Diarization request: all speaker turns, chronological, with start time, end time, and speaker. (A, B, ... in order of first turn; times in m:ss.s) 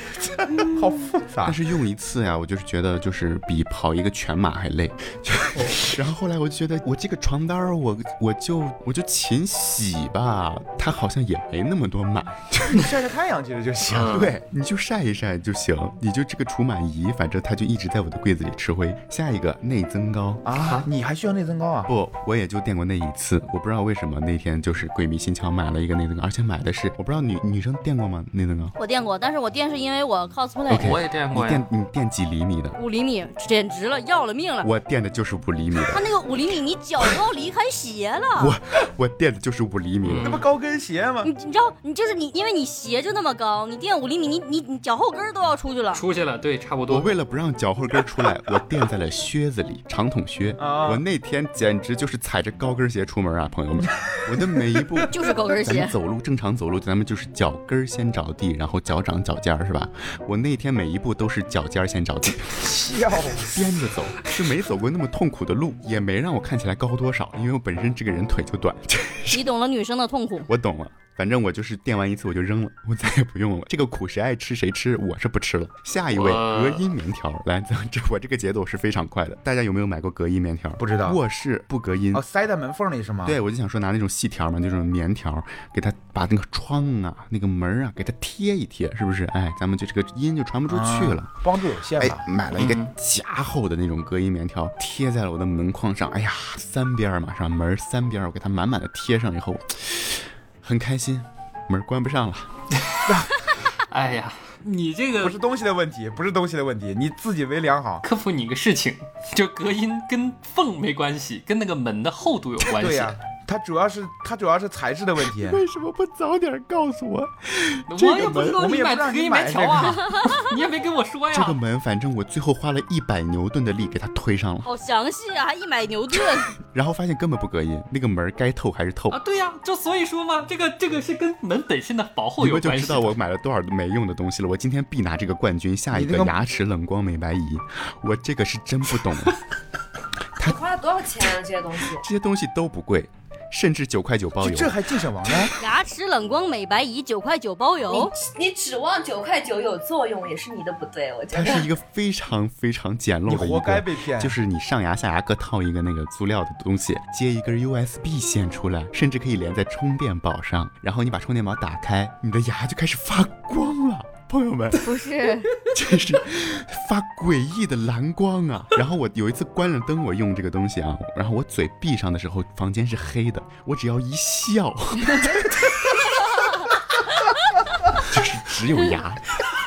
0:00.2-0:01.6 A
0:01.4-0:12.8 B
0:12.7-0:14.4 A
0:13.9-0:14.4 C
0:14.4-0:20.4 B
0:20.4-0:21.9 A
0:20.6-0:20.9 C
0:21.9-0:28.7 B
0:28.8-0:31.0 D
0:30.7-0:32.8 B
0:30.7-0:31.7 C
0:32.8-0:34.7 D
0:34.6-0:36.0 B
0:35.9-0:38.6 D
0:38.4-0:40.4 B
0:40.0-0:40.4 C
0:40.2-0:41.3 A
0:41.2-0:46.0 D
0:45.9-0:47.1 C
0:46.9-1:02.8 B
0:50.6-0:51.0 A
0:55.1-0:56.0 D
1:02.6-1:03.6 A
1:03.4-1:09.5 B
1:09.3-1:10.5 D
1:10.5-1:22.2 B
1:16.1-1:16.9 C
1:20.8-1:21.2 A
1:22.1-1:23.4 A
1:23.2-1:31.3 B
1:30.7-1:32.2 A
1:32.0-1:42.5 B
1:32.6-1:32.9 C
1:42.8-1:45.4 C
1:45.2-1:48.0 A
1:48.0-1:53.2 C
1:52.8-1:55.6 A
1:55.3-1:58.7 B
1:57.9-2:01.6 C
1:58.6-2:00.0 A
2:01.3-2:04.7 B
2:04.6-2:06.5 D
2:06.7-2:09.2 B
2:09.1-2:13.1 C
2:12.4-2:19.4 B
2:15.9-2:16.3 A
2:20.4-2:22.0 E
2:21.9-2:24.8 B
2:24.4-2:25.5 A
2:25.6-2:28.1 D
2:27.9-2:31.7 E
2:31.3-2:45.0 B
2:33.3-2:34.3 A
2:44.7-2:45.5 D
2:45.6-2:56.3 B
2:57.9-2:59.2 B